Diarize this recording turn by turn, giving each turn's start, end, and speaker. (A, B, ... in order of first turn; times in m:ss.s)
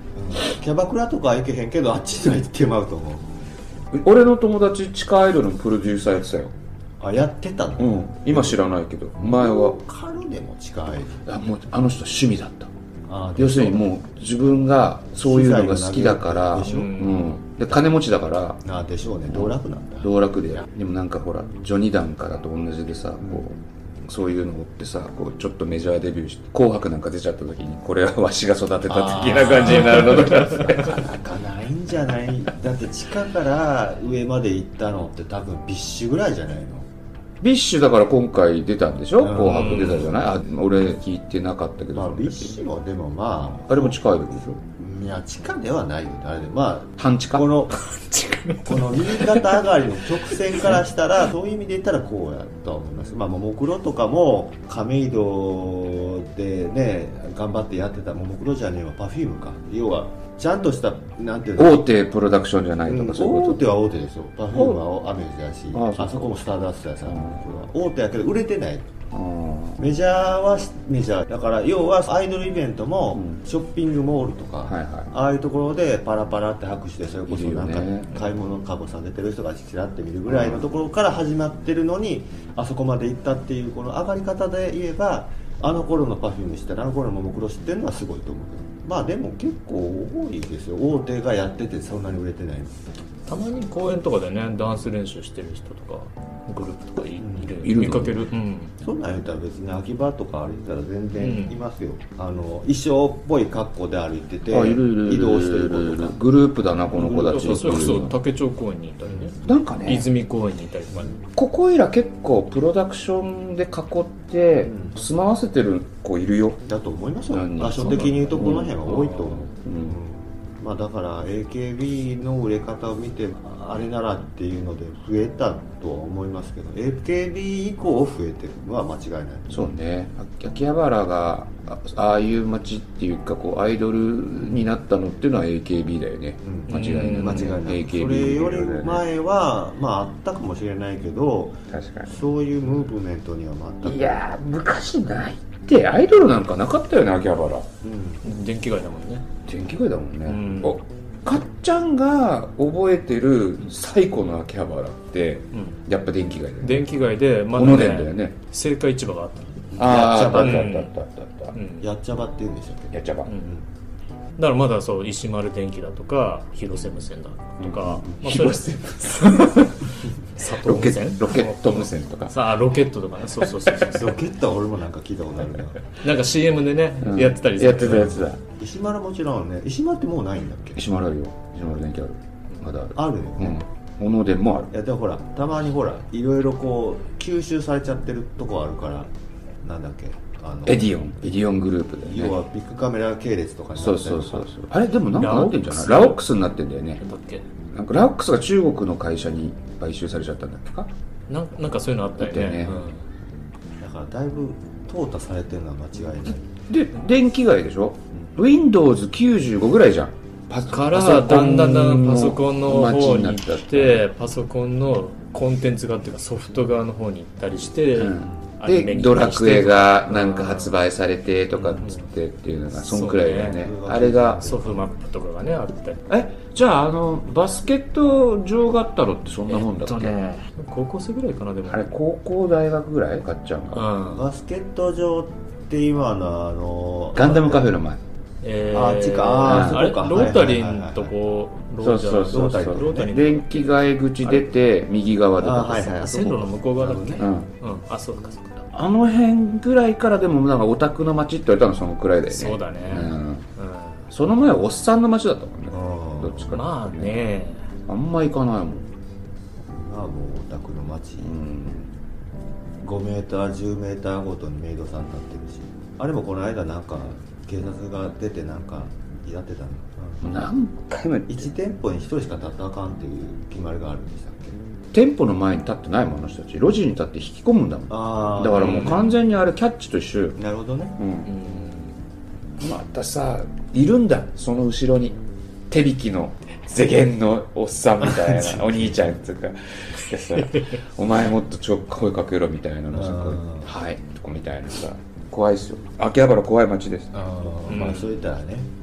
0:00.1-0:03.3 A
0:03.9-0:06.5 B
0:07.0-0:08.6 A
0:07.8-0:09.8 B
0:09.2-0:11.2 A
0:11.2-0:12.7 B
0:13.1-0:13.9 A
0:13.4-0:18.6 B
0:15.2-0:17.0 A
0:16.6-0:17.4 C
0:18.6-0:20.6 A
0:19.3-0:31.0 B
0:28.9-0:36.9 A
0:30.0-0:30.7 C
0:37.4-0:42.6 B
0:39.2-0:40.0 A
0:39.4-0:40.1 C
0:41.9-0:47.8 A
0:43.7-0:44.6 B
0:47.0-0:47.5 B
0:47.8-0:49.6 C
0:48.6-1:01.8 A
0:50.5-0:50.7 C
1:01.6-1:03.7 B
1:02.8-1:08.8 A
1:04.5-1:04.8 B
1:05.7-1:06.4 B
1:07.0-1:07.4 B
1:09.1-1:09.8 B
1:09.8-1:32.8 A
1:13.1-1:13.4 B
1:14.7-1:15.1 B
1:17.3-1:18.1 B
1:20.3-1:20.6 B
1:33.3-1:38.7 C
1:37.2-1:37.6 A
1:37.6-1:38.2 B
1:38.8-1:46.2 A
1:41.2-1:41.6 C
1:44.5-1:48.1 B
1:46.9-1:48.0 A
1:47.0-1:51.2 C
1:49.0-1:49.3 A
1:49.4-1:50.1 B
1:51.3-1:56.6 B
1:54.6-1:55.0 A
1:56.7-2:09.7 A
1:57.3-1:59.9 B
1:57.9-1:59.4 C
2:09.5-2:19.0 B
2:16.4-2:24.2 A
2:16.7-2:17.6 C
2:21.7-2:22.2 B
2:23.8-2:27.7 B
2:27.8-2:28.2 A
2:28.2-2:29.2 C
2:29.5-2:36.9 B
2:30.2-2:30.8 C
2:35.5-2:35.8 C
2:36.6-2:39.7 C
2:37.5-2:38.3 B
2:39.7-2:40.7 A
2:39.8-2:41.6 B
2:40.2-2:40.9 C
2:41.5-2:41.9 C
2:41.8-2:43.6 A
2:42.9-2:43.3 B
2:43.3-2:43.6 C
2:44.4-2:54.2 C
2:47.6-2:49.5 B
2:50.6-2:52.3 B
2:53.8-2:55.8 A
2:55.9-2:58.3 C
2:57.0-2:58.4 B
2:58.5-3:00.8 A
3:00.8-3:04.7 B
3:02.9-3:03.6 A
3:04.7-3:09.1 A
3:09.6-3:11.4 A
3:10.6-3:12.4 B
3:12.0-3:14.5 A
3:13.8-3:17.0 B
3:15.1-3:16.2 C
3:17.0-3:17.4 C
3:17.7-3:20.9 B
3:21.3-3:23.0 C
3:22.2-3:22.8 B
3:23.8-3:26.5 A
3:26.7-3:34.0 B
3:30.7-3:40.7 C
3:37.9-3:44.4 B
3:41.6-3:42.1 C
3:42.7-3:43.6 C
3:43.6-3:44.9 A
3:44.4-3:46.0 C
3:46.1-3:50.2 B
3:49.5-3:51.9 C
3:51.6-3:53.8 B
3:53.7-3:54.3 C
3:54.1-3:57.7 A
3:57.1-3:58.0 B
3:58.4-4:03.6 C
3:58.7-4:01.1 A
3:59.4-3:59.8 B
4:01.8-4:06.0 B
4:02.3-4:03.1 A
4:05.4-4:07.3 A
4:06.0-4:08.6 C
4:07.2-4:07.5 B
4:08.7-4:13.4 B
4:12.3-4:14.1 C
4:14.1-4:17.1 B
4:15.7-4:16.5 A
4:16.5-4:17.7 C
4:17.9-4:18.9 B
4:19.7-4:21.4 A
4:21.2-4:21.9 B
4:22.8-4:30.3 A
4:30.2-4:31.5 B
4:31.3-4:34.6 A
4:34.9-4:40.4 B
4:37.9-4:39.1 A
4:38.6-4:39.1 C
4:40.4-4:41.0 A
4:41.0-4:41.3 B
4:41.2-4:41.9 C
4:42.6-4:45.2 B
4:45.7-4:57.1 B
4:48.0-4:49.0 A
4:50.3-4:50.8 C
4:52.9-4:53.7 A
4:57.1-4:58.7 A
4:57.7-4:58.2 C